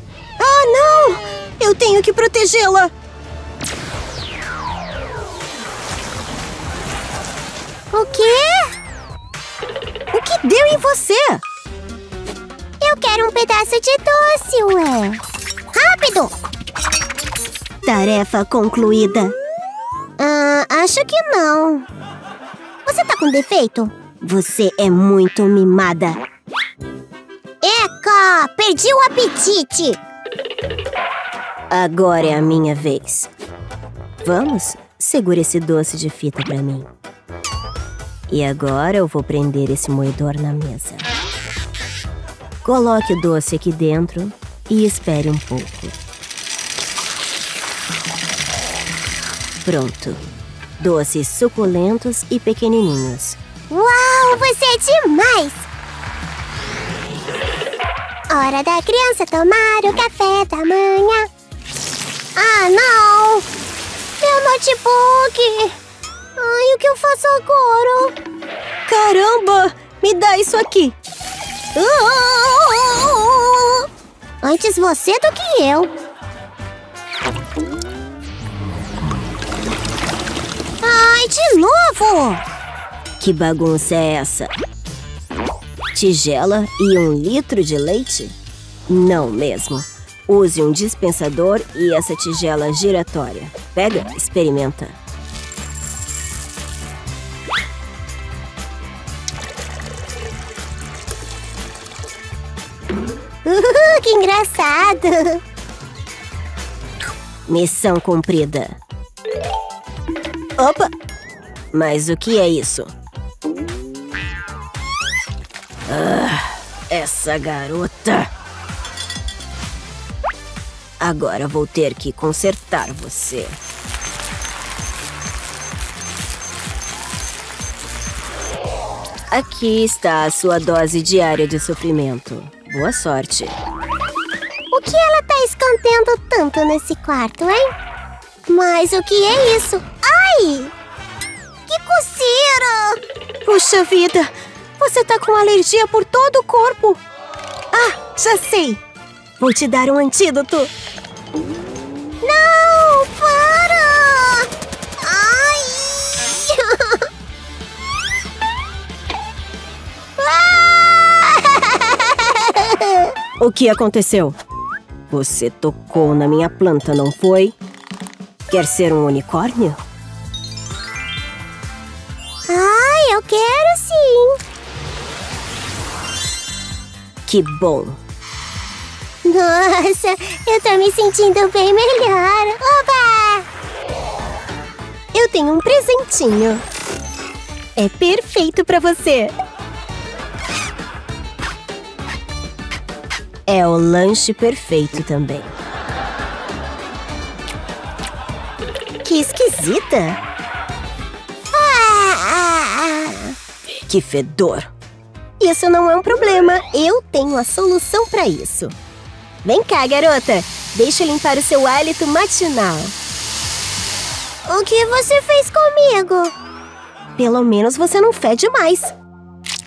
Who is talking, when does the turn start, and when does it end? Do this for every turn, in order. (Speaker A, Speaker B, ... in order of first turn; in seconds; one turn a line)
Speaker A: 0.4-2.9
Speaker B: 7.9-8.7
Speaker A: 10.1-11.4
Speaker B: 12.8-15.2
Speaker B: 15.7-16.4
Speaker A: 17.8-19.3
Speaker B: 20.2-21.8
Speaker B: 22.8-24.0
Speaker A: 24.2-26.2
Speaker B: 27.6-30.0
Speaker A: 31.7-33.3
Speaker A: 34.2-36.9
Speaker A: 38.3-41.1
Speaker A: 42.6-46.0
Speaker A: 49.6-50.2
Speaker A: 50.8-53.4
Speaker B: 53.7-55.7
Speaker B: 58.3-61.3
Speaker B: 62.4-63.5
Speaker B: 64.2-65.7
Speaker B: 66.4-68.1
Speaker A: 68.9-70.9
Speaker B: 71.8-73.8
Speaker B: 74.4-75.9
Speaker B: 80.8-82.4
Speaker A: 83.2-84.5
Speaker A: 85.9-88.3
Speaker A: 88.9-94.9
Speaker B: 103.4-105.4
Speaker A: 107.5-108.7
Speaker A: 110.6-110.9
Speaker A: 111.7-112.9
Speaker A: 115.9-118.3
Speaker A: 121.0-123.6
Speaker A: 129.3-133.5
Speaker B: 134.7-137.7
Speaker B: 138.5-140.7
Speaker B: 141.7-143.0
Speaker A: 143.4-147.0
Speaker A: 147.7-148.8
Speaker A: 149.4-150.7
Speaker B: 152.2-154.5
Speaker B: 155.0-157.1
Speaker B: 160.2-163.1
Speaker A: 163.4-164.4
Speaker A: 165.1-167.5
Speaker A: 168.5-169.8
Speaker B: 172.5-174.4
Speaker A: 177.2-178.0
Speaker B: 179.2-183.5
Speaker A: 185.1-186.6
Speaker A: 187.8-189.3
Speaker A: 193.5-195.5
Speaker A: 199.0-200.2
Speaker B: 201.5-203.3
Speaker A: 203.9-204.7
Speaker A: 205.4-208.7
Speaker A: 209.4-212.9
Speaker B: 214.4-216.3
Speaker A: 217.2-218.9